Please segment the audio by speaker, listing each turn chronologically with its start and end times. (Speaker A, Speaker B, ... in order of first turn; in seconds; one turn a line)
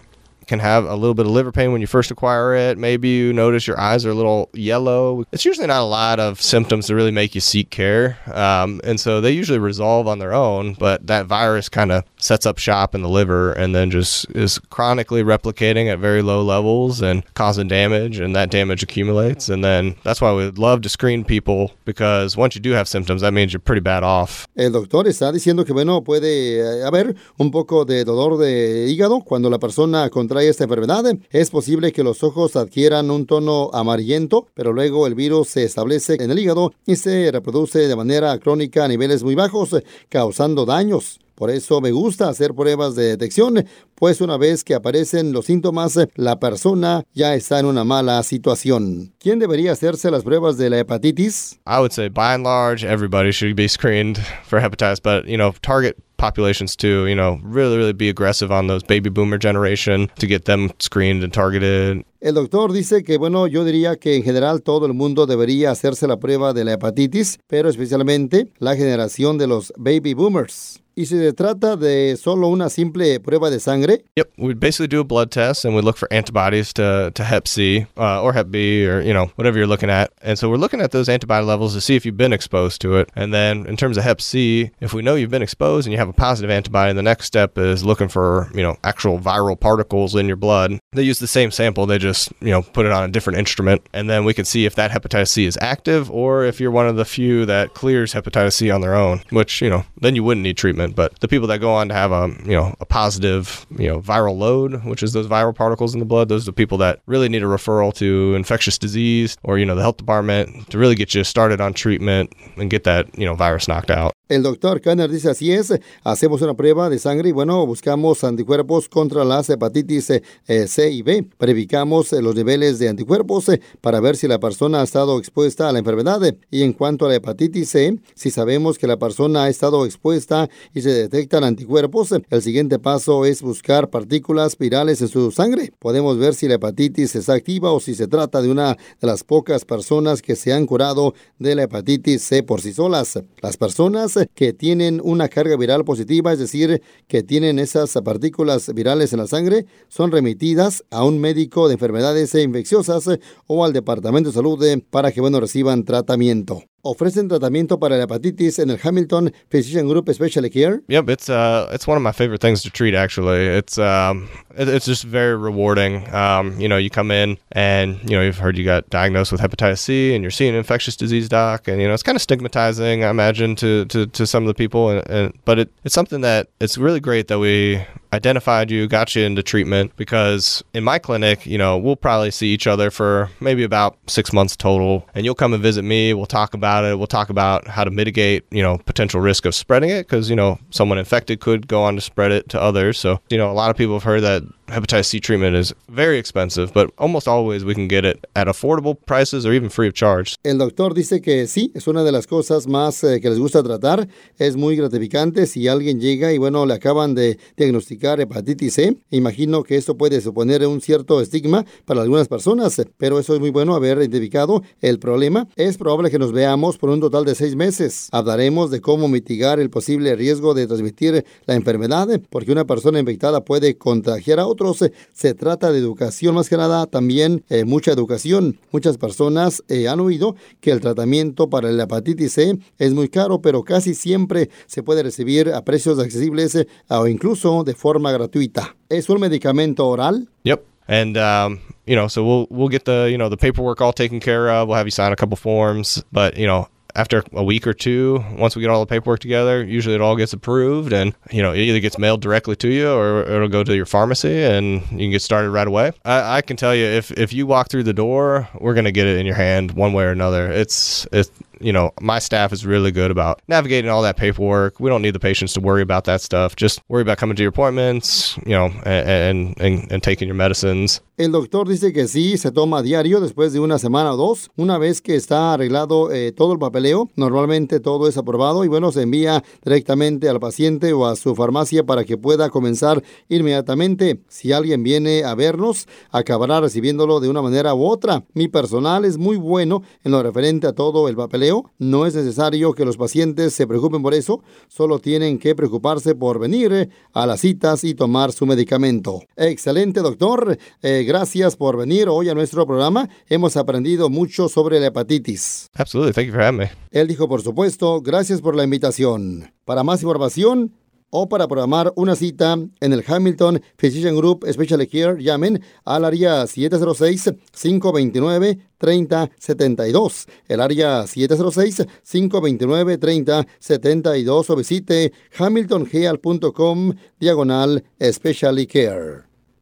Speaker A: 0.5-24.4
Speaker B: 24.6-51.5
Speaker A: 51.6-62.0
Speaker B: 62.2-74.0
Speaker A: 74.2-114.1
Speaker B: 114.3-160.8
Speaker A: 160.9-200.3
Speaker B: 200.4-240.2
Speaker A: 240.4-271.0
Speaker B: 271.2-305.6
Speaker A: 305.8-306.7
Speaker B: 306.9-329.2